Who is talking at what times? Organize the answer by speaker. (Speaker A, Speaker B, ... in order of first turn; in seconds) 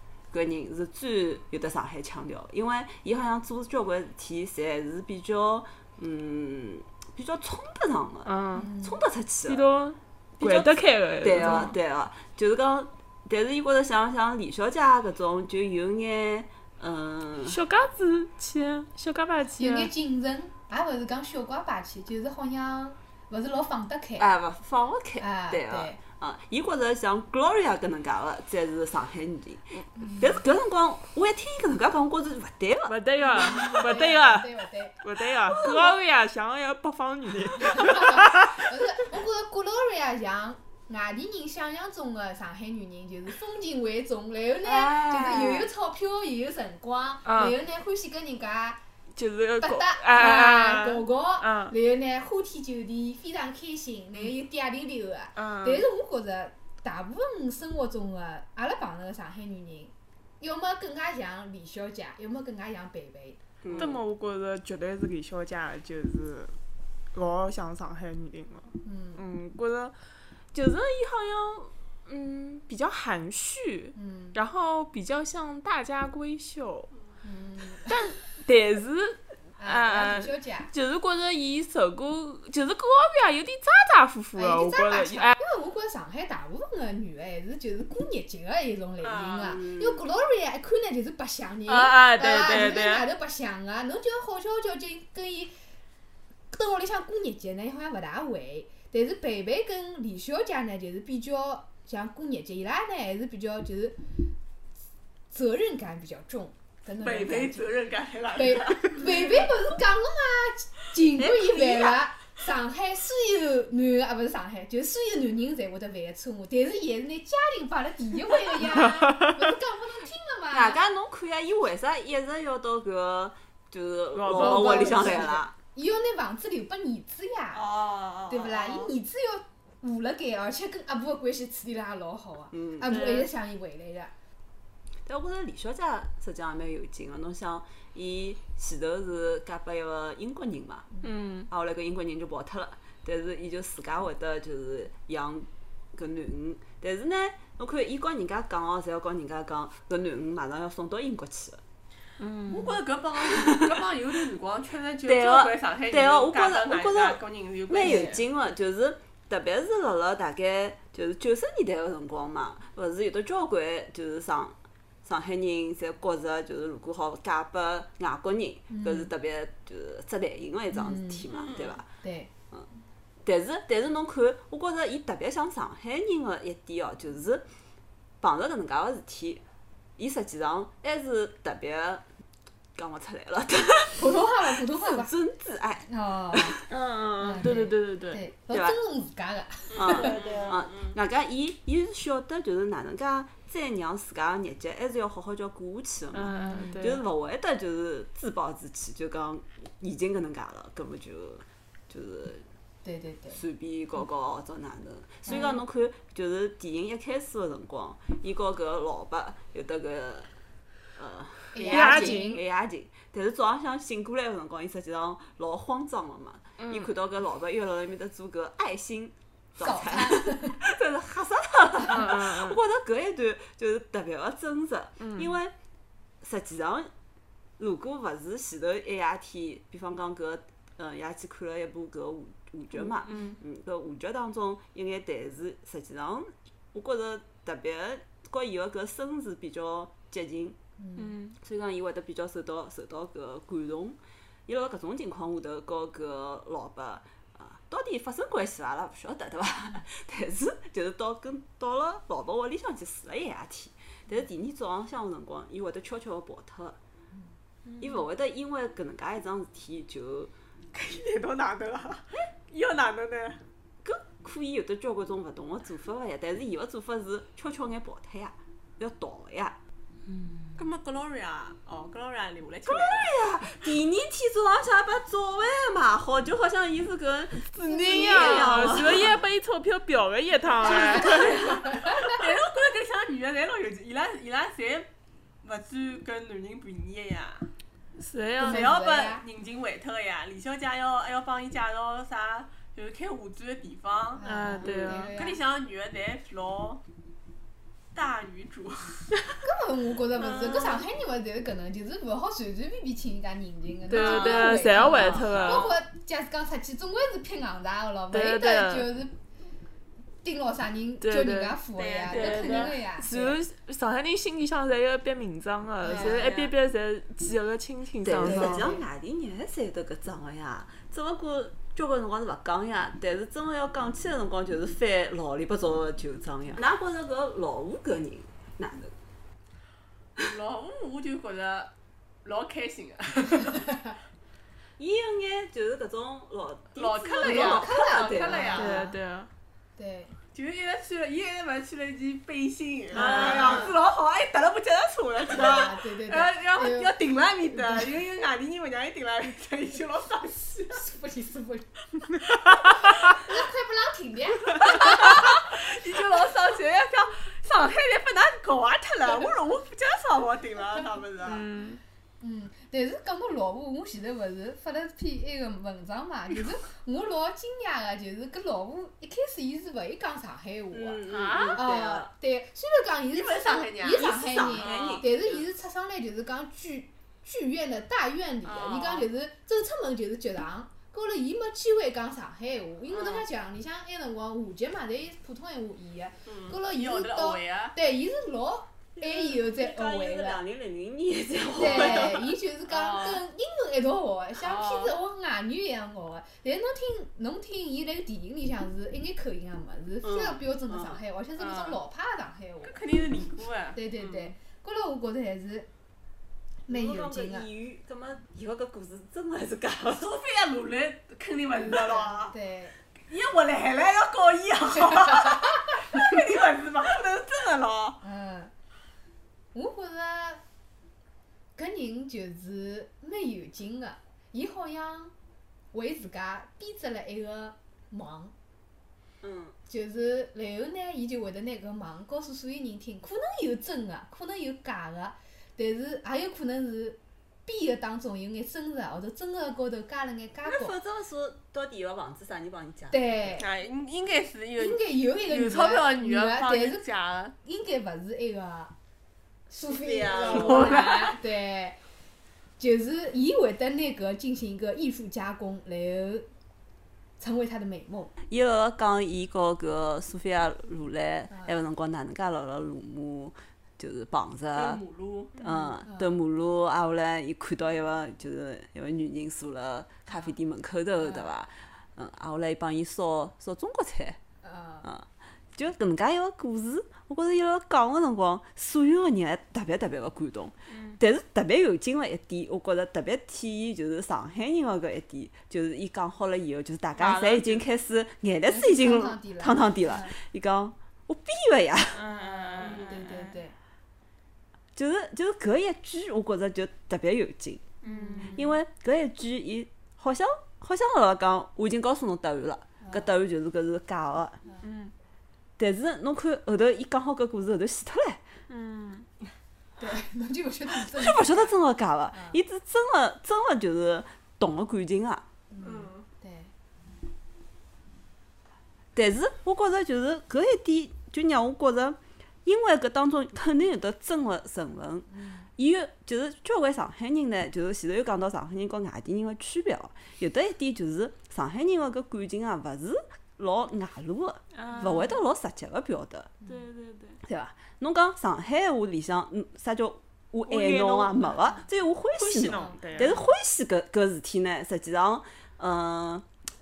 Speaker A: 0.3-9.7, 10.4-17.6, 24.2-33.0, 45.0-45.6, 63.6-64.0, 89.4-90.0, 111.2-112.0, 120.5-125.5, 132.5-133.0, 135.1-140.9, 141.5-151.6, 153.2-153.8, 155.1-171.9, 173.2-177.5, 178.2-179.4, 180.0-182.1, 182.8-186.6, 188.5-188.8, 189.7-202.5, 203.3-210.3, 211.0-225.5, 226.2-226.9, 227.6-240.6, 241.3-256.8, 257.8-260.3, 263.8-269.6, 272.7-279.2, 304.9-305.3, 318.0-328.9, 334.8-338.7, 343.0-343.7, 370.7-372.1, 373.9-375.1, 389.0-392.3, 400.0-401.0, 406.7-410.1, 429.2-429.6, 440.4-443.4, 449.7-450.8, 458.3-464.8, 465.4-474.2, 474.8-492.1, 494.8-497.7, 498.3-504.4, 505.6-508.2, 510.8-515.3, 519.0-536.4, 537.2-546.3
Speaker B: 8.2-8.7, 9.5-11.7, 17.5-19.9, 32.9-34.5, 35.0-38.6, 47.3-47.6, 49.2-51.7, 55.4-55.9, 63.7-66.5, 67.1-70.0, 70.5-76.9, 77.9-85.4, 91.7-93.1, 124.1-125.3, 132.9-133.3, 141.0-141.5, 152.2-152.8, 186.7-188.2, 189.9-190.6, 196.1-197.0, 211.6-212.4, 216.6-216.9, 221.9-222.6, 225.0-225.3, 233.0-233.4, 241.0-241.4, 270.2-270.5, 277.5-281.6, 288.0-288.7, 294.2-295.1, 303.9-305.7, 308.1-308.9, 311.0-311.6, 312.1-318.7, 338.6-339.3, 343.0-343.4, 361.2-361.8, 371.1-371.6, 480.7-481.0, 487.0-487.6, 491.9-493.4, 497.8-498.5, 504.6-504.9, 508.5-509.1, 534.6-535.2, 536.5-537.2, 540.5-541.3, 542.2-543.2
Speaker C: 8.6-9.0, 19.6-24.3, 25.2-26.0, 30.0-30.4, 33.2-36.0, 37.6-48.8, 49.6-63.4, 68.8-69.2, 74.0-74.4, 77.2-78.0, 79.6-80.7, 84.4-95.5, 96.5-104.2, 105.3-107.8, 108.3-120.8, 124.3-127.6, 128.3-134.1, 168.7-169.1, 170.7-171.2, 172.0-172.3, 183.9-185.1, 185.9-186.6, 187.2-190.1, 196.3-196.8, 202.8-203.4, 205.3-205.5, 211.5-212.4, 219.6-220.6, 240.8-241.1, 280.6-282.1, 288.4-289.2, 294.2-295.4, 299.4-309.1, 310.2-313.4, 315.8-316.3, 318.2-318.8, 337.2-339.0, 339.8-340.1, 343.0-343.7, 345.3-346.9, 347.6-347.9, 350.7-351.7, 353.0-355.4, 362.2-371.0, 371.6-390.4, 391.5-402.9, 403.8-405.7, 406.7-407.5, 411.6-412.8, 418.0-418.5, 419.5-420.4, 421.6-425.1, 425.7-428.3, 429.7-440.8, 442.9-443.5, 444.6-446.8, 447.4-448.7, 449.5-451.8, 452.6-456.3, 457.2-458.1, 465.9-466.2, 471.0-471.3, 474.4-474.9, 488.5-490.1, 492.1-493.6, 497.9-498.4, 502.8-503.1, 509.8-511.6, 512.1-512.4, 515.5-516.5, 525.1-525.5, 542.5-542.8
Speaker D: 89.0-89.6, 107.0-109.2, 127.5-128.9, 152.5-158.2, 171.3-171.8, 189.9-190.9, 260.7-263.4, 270.6-273.1, 278.1-278.7, 280.6-284.9, 285.4-287.5, 288.4-296.8, 297.9-299.1, 303.9-305.7, 311.8-312.8, 315.9-316.5, 330.2-331.7, 332.2-333.7, 336.8-338.8, 340.3-350.8, 354.5-361.5, 373.1-375.1, 378.4-379.1, 382.9-383.2, 386.3-387.8, 391.8-392.0, 392.7-393.2, 394.4-394.9, 401.4-401.8, 402.6-403.8, 409.9-412.3, 413.1-418.0, 443.4-447.4, 450.1-451.2, 464.5-465.4, 492.6-492.9, 515.6-516.1